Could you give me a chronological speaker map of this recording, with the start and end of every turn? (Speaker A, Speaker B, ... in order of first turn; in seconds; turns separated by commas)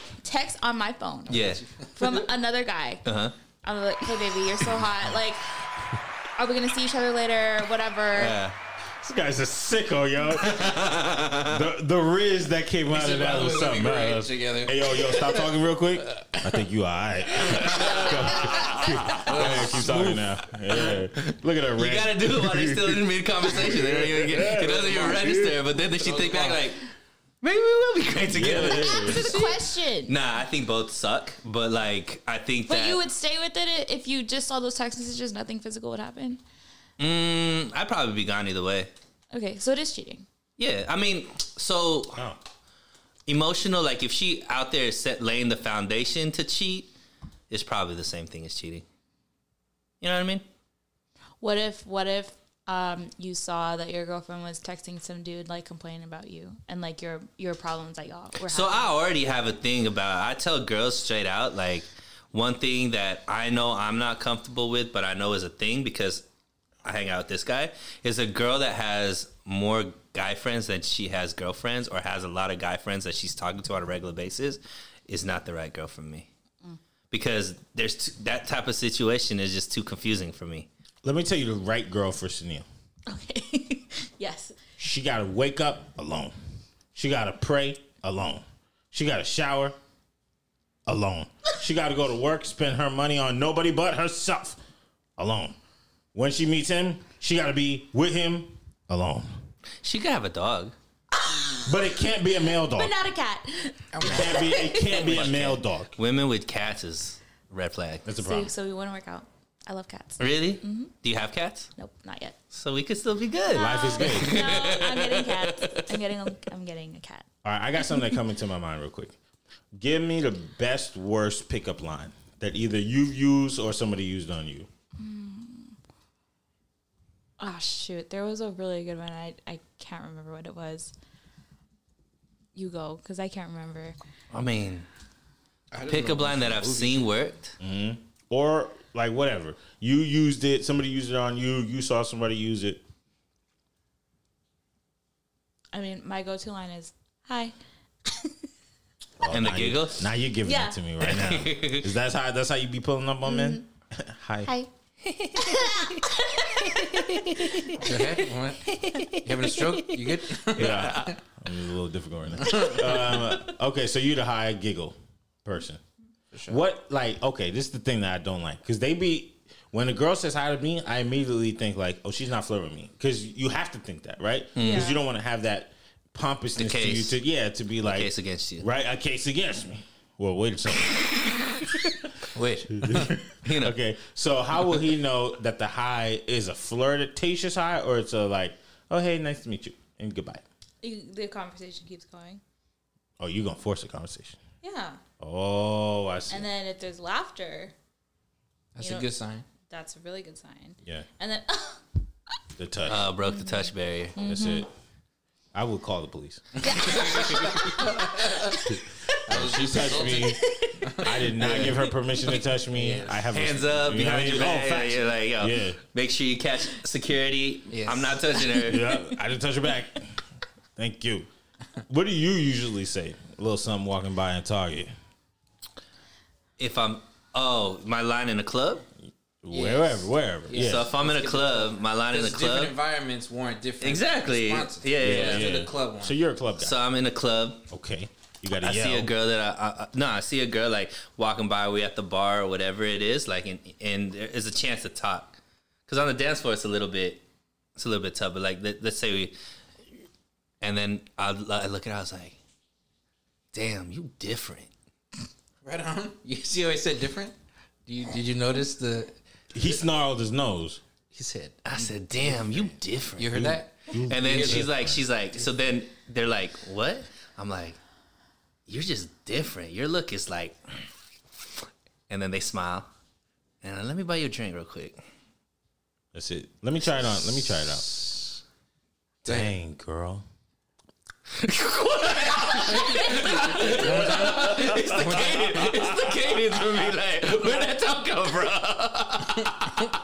Speaker A: 0.2-1.4, Speaker B: 1.3-2.2, Speaker C: 1.3-1.6, Speaker A: 1.9-3.0, Speaker C: 3.0-3.4, Speaker A: 3.6-5.5, Speaker A: 6.4-8.4, Speaker C: 8.2-8.6, Speaker D: 9.0-25.6, Speaker C: 10.5-11.6, Speaker B: 12.9-15.5, Speaker B: 16.2-16.6, Speaker B: 17.4-20.2, Speaker C: 17.8-18.6, Speaker C: 19.2-20.9, Speaker C: 21.8-26.8, Speaker B: 24.8-26.6, Speaker C: 27.4-33.0, Speaker D: 28.3-29.4, Speaker A: 28.7-30.1, Speaker A: 32.7-36.4, Speaker C: 37.0-38.9, Speaker A: 39.3-40.2, Speaker C: 40.6-42.2, Speaker D: 42.1-42.4, Speaker C: 43.3-46.9, Speaker C: 47.5-48.9, Speaker C: 50.0-50.4, Speaker A: 51.4-58.9, Speaker C: 58.4-66.2, Speaker C: 66.8-76.3, Speaker C: 77.1-80.7, Speaker D: 81.0-82.7, Speaker A: 83.1-84.6, Speaker D: 84.8-86.4, Speaker D: 86.9-89.8, Speaker D: 90.9-94.6, Speaker D: 95.2-95.6, Speaker D: 96.1-99.3, Speaker C: 99.8-100.8, Speaker A: 101.2-101.7, Speaker D: 101.7-102.9, Speaker A: 102.7-105.0, Speaker B: 103.9-105.2, Speaker D: 104.0-106.0, Speaker C: 104.9-108.1, Speaker D: 108.0-108.5, Speaker A: 108.2-110.9, Speaker C: 110.2-111.7, Speaker A: 111.8-112.4, Speaker C: 112.5-115.8, Speaker A: 113.5-117.2, Speaker D: 113.5-114.6, Speaker D: 117.4-119.2, Speaker D: 119.7-124.7, Speaker A: 125.0-125.8, Speaker A: 127.4-130.9, Speaker A: 132.6-134.0, Speaker C: 134.3-134.9, Speaker B: 135.7-137.1, Speaker C: 135.9-137.6, Speaker D: 137.6-142.8, Speaker A: 145.7-147.5, Speaker A: 148.1-148.3, Speaker D: 149.2-154.5, Speaker C: 149.3-150.1, Speaker A: 150.4-150.8, Speaker C: 151.0-151.9, Speaker A: 153.3-153.6, Speaker A: 155.3-157.8, Speaker C: 155.5-155.8, Speaker B: 157.8-161.2, Speaker A: 158.7-159.3, Speaker D: 160.6-165.8, Speaker C: 160.6-161.1, Speaker B: 162.4-162.8, Speaker B: 166.3-166.6, Speaker D: 166.5-181.1, Speaker C: 174.6-175.0, Speaker A: 174.6-175.0, Speaker C: 176.6-177.2, Speaker C: 177.8-178.7, Speaker B: 182.3-183.2, Speaker D: 182.8-190.4, Speaker C: 183.4-183.8, Speaker A: 190.8-192.4, Speaker D: 193.2-194.4, Speaker A: 194.6-195.0, Speaker D: 195.2-196.5, Speaker A: 196.3-197.7, Speaker B: 198.8-199.4, Speaker A: 198.8-199.1, Speaker A: 199.7-201.8, Speaker D: 202.6-203.1, Speaker C: 202.9-204.2, Speaker A: 203.2-204.7, Speaker D: 204.2-204.7, Speaker D: 205.5-206.6, Speaker A: 206.6-208.8, Speaker B: 206.7-208.5, Speaker D: 208.7-210.4, Speaker B: 209.3-211.8, Speaker A: 210.1-211.1, Speaker D: 211.0-215.8, Speaker B: 212.4-213.2, Speaker C: 213.3-218.9, Speaker B: 217.7-218.2, Speaker D: 218.6-220.2, Speaker D: 220.8-221.3, Speaker D: 221.9-224.9, Speaker C: 226.6-228.8, Speaker D: 229.4-230.9, Speaker B: 229.5-236.2, Speaker C: 230.5-232.8, Speaker C: 233.8-235.6, Speaker D: 235.0-236.8, Speaker C: 236.6-237.6, Speaker D: 237.7-239.1, Speaker C: 238.6-247.2, Speaker C: 247.8-249.3, Speaker C: 250.6-252.4, Speaker C: 253.5-254.7, Speaker B: 255.6-257.4, Speaker B: 257.9-259.2, Speaker D: 259.5-260.8, Speaker B: 261.1-265.5, Speaker C: 261.6-263.6, Speaker D: 263.3-265.0, Speaker C: 264.1-267.8, Speaker C: 268.7-270.6, Speaker C: 272.1-272.9, Speaker C: 273.6-275.0, Speaker D: 276.1-278.4, Speaker D: 279.2-280.2, Speaker B: 279.2-279.5, Speaker C: 281.4-289.6, Speaker B: 283.7-285.7, Speaker D: 283.9-286.4, Speaker B: 289.4-289.9